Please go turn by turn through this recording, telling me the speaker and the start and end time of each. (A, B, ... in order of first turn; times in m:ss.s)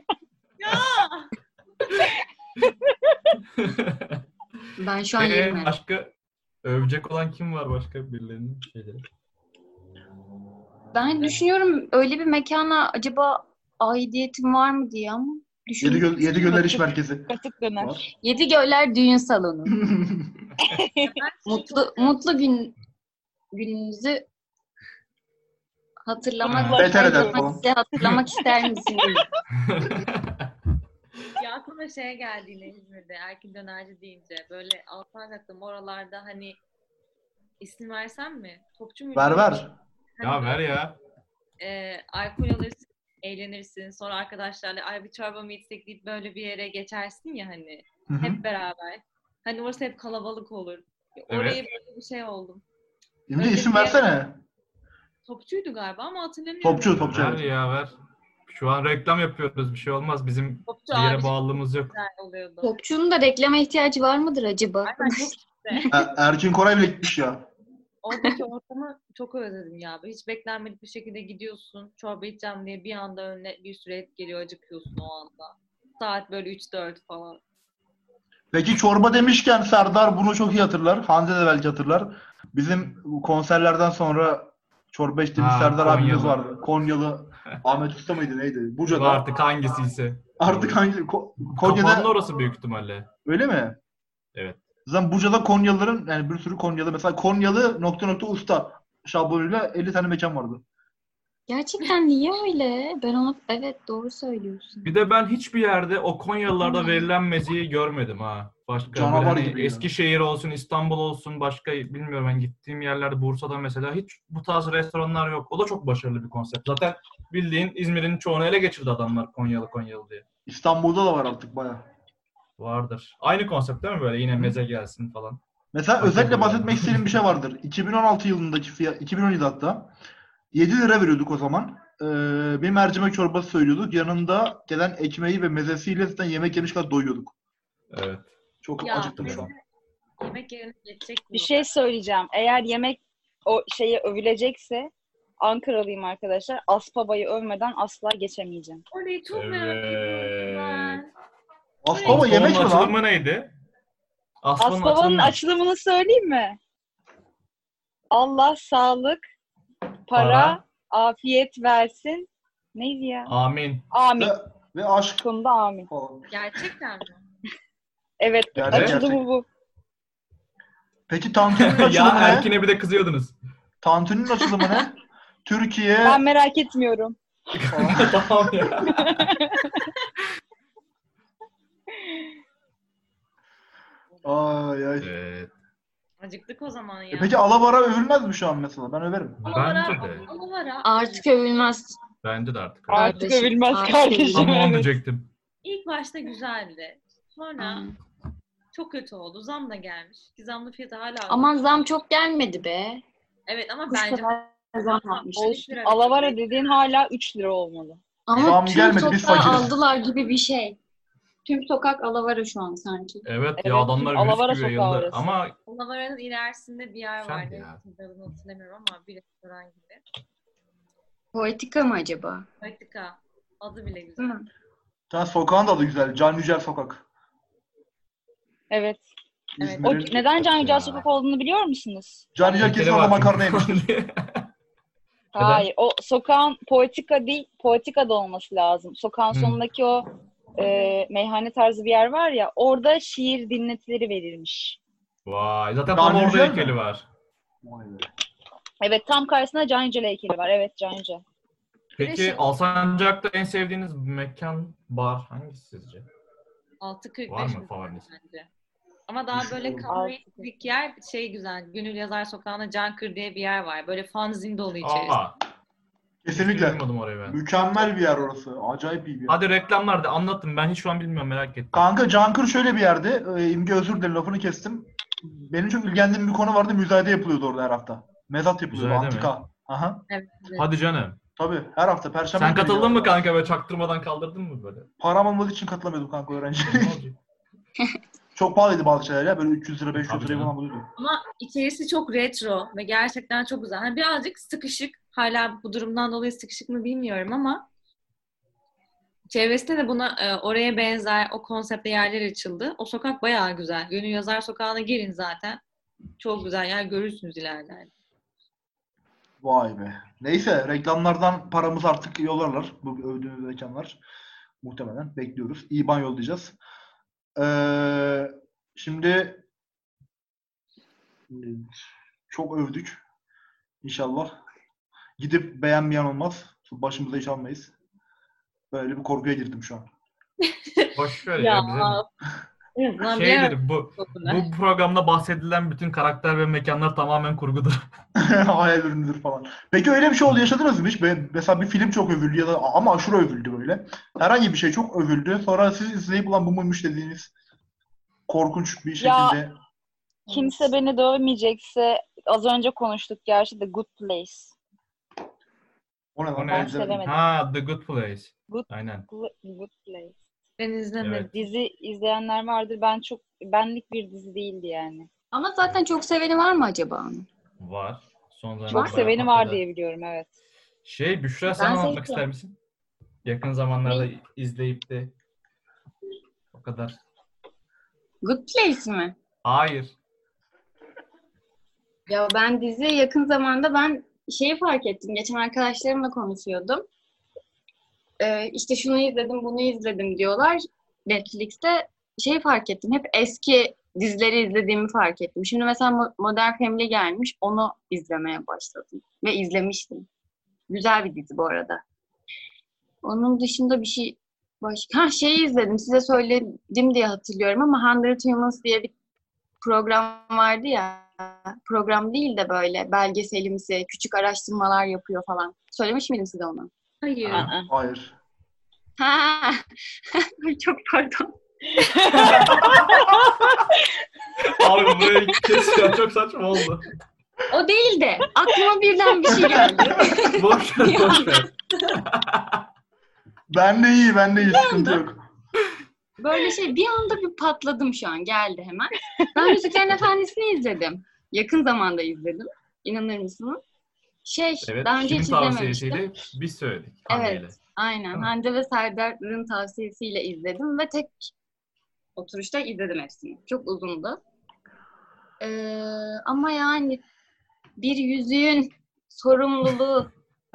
0:00.6-0:01.3 A
0:02.9-0:03.3 B
0:03.6-0:04.2 C
0:04.8-0:05.8 D
0:05.2-0:06.1 C
0:06.6-0:09.0 C
0:10.9-0:16.8 D
0:15.8-0:18.0 E
0:17.3-0:18.0 B
0:18.2-0:19.8 D
0:19.7-0:20.5 E
0:20.6-0:21.1 B
0:21.0-0:22.2 A
0:21.5-0:22.8 D
0:23.5-0:24.2 D
0:26.1-0:29.3 D
0:26.5-0:27.4 B
0:26.5-0:26.9 C
0:26.7-0:27.6 E
0:29.6-0:30.5 C
0:31.4-0:36.6 A
0:37.6-0:40.7 A
0:39.2-0:39.8 E
0:40.2-0:41.0 C
0:41.6-0:52.6 A
0:48.1-0:48.4 E
0:51.3-0:51.6 C
0:53.3-0:54.4 E
0:53.4-0:54.1 A
0:55.2-0:57.2 A
0:56.6-0:57.5 E
0:57.0-0:57.9 C
0:58.5-1:02.0 C
1:00.7-1:02.8 A
1:02.6-1:06.0 D
1:04.8-1:05.9 A
1:05.9-1:07.5 E
1:08.0-1:17.4 A
1:18.5-1:29.2 E
1:25.4-1:26.6 C
1:28.9-1:30.8 C
1:30.4-1:32.1 E
1:31.5-1:33.1 C
1:33.3-1:33.8 E
1:34.4-1:34.6 C
1:34.9-1:40.6 E
1:41.5-1:44.9 D
1:44.8-2:00.2 C
1:46.6-1:47.1 D
1:48.9-1:49.9 E
2:00.5-2:01.8 E
2:02.6-2:05.4 C
2:05.7-2:09.9 E
2:06.0-2:07.1 C
2:10.5-2:17.3 E
2:17.9-2:18.3 C
2:18.6-2:19.5 E
2:18.8-2:19.6 A
2:19.0-2:19.5 C
2:20.2-2:21.8 A
2:21.3-2:28.8 B
2:28.9-2:31.1 A
2:29.3-2:31.0 C
2:31.8-2:33.0 E
2:31.9-2:32.7 A
2:32.0-2:33.5 C
2:34.4-2:35.4 C
2:34.6-2:36.6 B
2:38.1-2:39.2 B
2:40.1-2:43.3 B
2:40.1-2:40.6 C
2:43.3-2:43.9 C
2:43.9-2:44.4 B
2:44.2-2:45.2 E
2:45.2-2:45.9 B
2:45.9-2:46.3 E
2:46.3-2:47.2 A
2:48.2-2:49.5 B
2:48.6-2:49.2 E
2:48.6-2:49.0 C
2:51.1-2:52.5 E
2:51.6-2:53.4 C
2:53.8-2:56.2 E
2:56.0-2:57.2 B
2:57.5-2:59.3 C
2:57.7-2:58.9 E
2:58.9-2:59.7 B
3:04.2-3:05.1 E
3:05.0-3:05.5 C
3:06.2-3:07.4 A
3:07.1-3:09.4 E
3:09.4-3:10.3 C
3:09.4-3:11.7 A
3:10.8-3:12.0 D
3:12.2-3:13.2 C
3:12.9-3:14.9 B
3:12.9-3:14.5 D
3:14.3-3:15.3 C
3:15.6-3:17.8 A
3:17.6-3:18.0 D
3:18.7-3:21.8 A
3:21.3-3:23.0 D
3:23.5-3:26.4 A
3:23.9-3:25.6 D
3:25.4-3:28.0 B
3:28.3-3:30.8 D
3:28.4-3:29.7 E
3:31.4-3:33.3 D
3:33.2-3:35.6 C
3:33.6-3:35.4 B
3:35.7-3:40.0 A
3:37.2-3:37.8 C
3:41.3-3:42.5 D
3:42.6-3:44.4 A
3:44.2-3:44.4 D
3:45.1-3:47.0 E
3:48.7-3:49.1 B
3:49.6-3:50.2 E
3:49.6-3:50.1 A
3:49.8-3:52.3 B
3:50.4-3:51.0 C
3:52.4-3:53.8 E
3:52.4-3:54.5 C
3:55.3-4:04.8 B
3:55.4-3:55.7 C
3:59.3-3:59.6 C
4:05.3-4:07.1 C
4:05.9-4:06.8 E
4:07.6-4:08.1 E
4:08.8-4:11.2 B
4:12.0-4:16.1 C
4:12.0-4:12.4 B
4:16.8-4:18.5 A
4:17.3-4:18.1 C
4:19.1-4:25.2 A
4:19.3-4:19.9 E
4:19.9-4:20.3 B
4:24.8-4:25.4 C
4:26.2-4:29.4 E
4:26.3-4:27.4 C
4:29.3-4:31.8 C
4:31.7-4:40.0 E
4:38.7-4:39.3 C
4:40.1-4:40.7 A
4:40.6-4:41.2 C
4:41.4-4:43.2 E
4:42.4-4:44.9 C
4:45.0-4:47.0 E
4:46.6-4:47.2 C
4:48.4-4:50.9 E
4:50.0-4:50.5 C
4:51.0-4:57.7 A
4:59.3-5:05.6 A
5:06.2-5:07.9 A
5:09.4-5:14.0 E
5:14.6-5:16.6 E
5:17.4-5:19.4 E
5:21.3-5:21.8 E
5:22.3-5:23.0 E
5:23.8-5:24.4 E
5:25.2-5:27.7 E
5:28.7-5:29.9 E
5:30.4-5:32.1 A
5:31.0-5:32.0 C
5:32.8-5:34.5 A
5:33.0-5:37.8 C
5:38.2-5:47.3 E
5:48.3-5:49.6 E
5:49.0-5:49.4 B
5:50.3-5:54.5 B
5:56.2-5:57.0 E
5:56.4-5:59.1 C
5:56.5-5:57.2 B
5:58.5-6:00.2 B
6:00.6-6:01.3 A
6:01.0-6:01.3 C
6:01.3-6:05.1 B
6:05.3-6:07.3 D
6:07.6-6:09.6 C
6:08.7-6:10.3 B
6:08.7-6:09.0 D
6:10.8-6:12.6 C
6:11.5-6:12.2 D
6:13.2-6:15.1 C
6:16.5-6:17.0 C
6:18.2-6:19.2 D
6:19.4-6:20.0 C
6:22.1-6:26.9 D
6:28.2-6:40.1 D
6:40.7-6:41.8 D
6:43.0-6:48.9 D
6:49.6-6:56.7 D
6:57.0-6:57.5 A
6:57.2-6:57.5 C
6:57.3-6:57.7 B
6:57.6-6:58.2 E
6:59.0-7:02.7 D
7:01.8-7:03.4 B
7:02.1-7:03.2 C
7:04.4-7:06.9 C
7:07.5-7:11.5 D
7:09.4-7:10.2 E
7:10.3-7:12.6 C
7:13.5-7:15.2 E
7:14.5-7:15.0 D
7:16.2-7:23.6 D
7:24.2-7:26.2 D
7:24.6-7:27.6 C
7:27.1-7:31.3 D
7:32.2-7:34.2 D
7:35.4-7:37.0 D
7:37.8-7:40.1 D